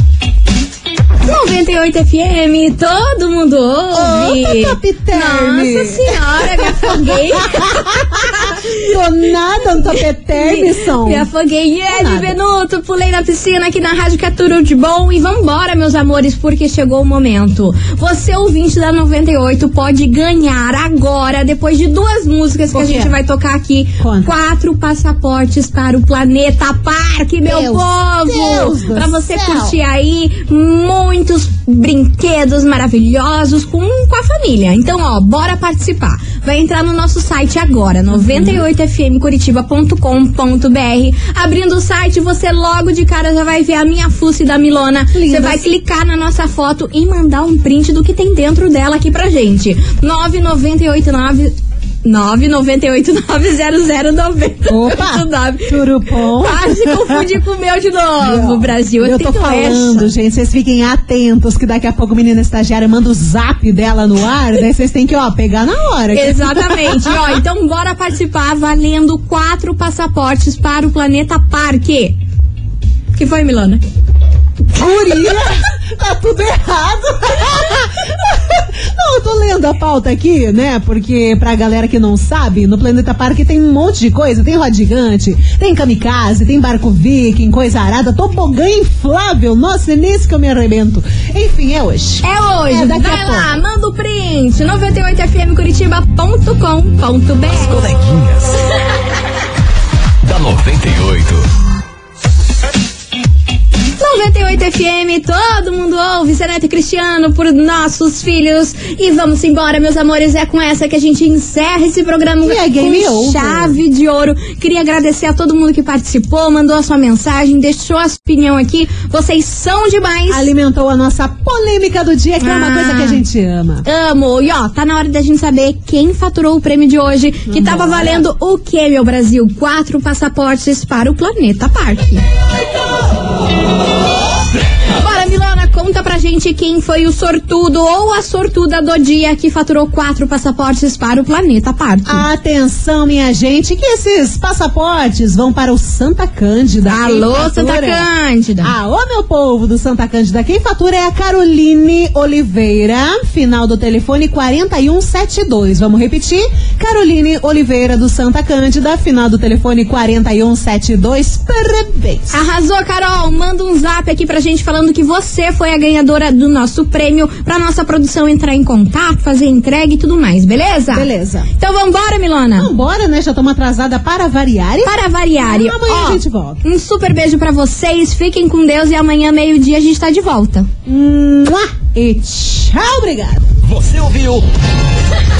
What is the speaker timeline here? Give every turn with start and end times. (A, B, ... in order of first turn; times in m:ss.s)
0:01.2-0:08.7 A
0:03.9-0:11.2 B
0:09.7-1:00.1 A
0:11.9-0:12.3 B
0:22.7-0:23.2 B
0:24.0-0:24.3 B
0:27.4-0:29.7 B
0:38.1-0:38.6 B
0:45.1-0:45.7 B
0:54.7-0:57.2 B
0:58.2-1:07.2 B
1:06.1-1:12.2 A
1:13.1-1:13.8 A
1:14.7-1:33.5 B
1:32.2-1:37.8 A
1:37.5-1:38.7 C
1:40.2-1:41.5 C
1:44.0-2:00.5 A
1:52.4-1:53.8 B
2:00.3-2:03.8 B
2:02.4-2:03.2 A
2:03.8-2:12.2 A
2:07.5-2:08.2 B
2:14.9-2:22.3 A
2:22.0-2:28.0 B
2:26.9-2:28.7 A
2:28.6-2:42.3 B
2:42.3-2:52.7 A
2:50.9-2:51.5 B
2:52.6-2:56.6 B
2:54.8-3:00.7 A
3:00.8-3:03.4 B
3:03.6-3:04.4 C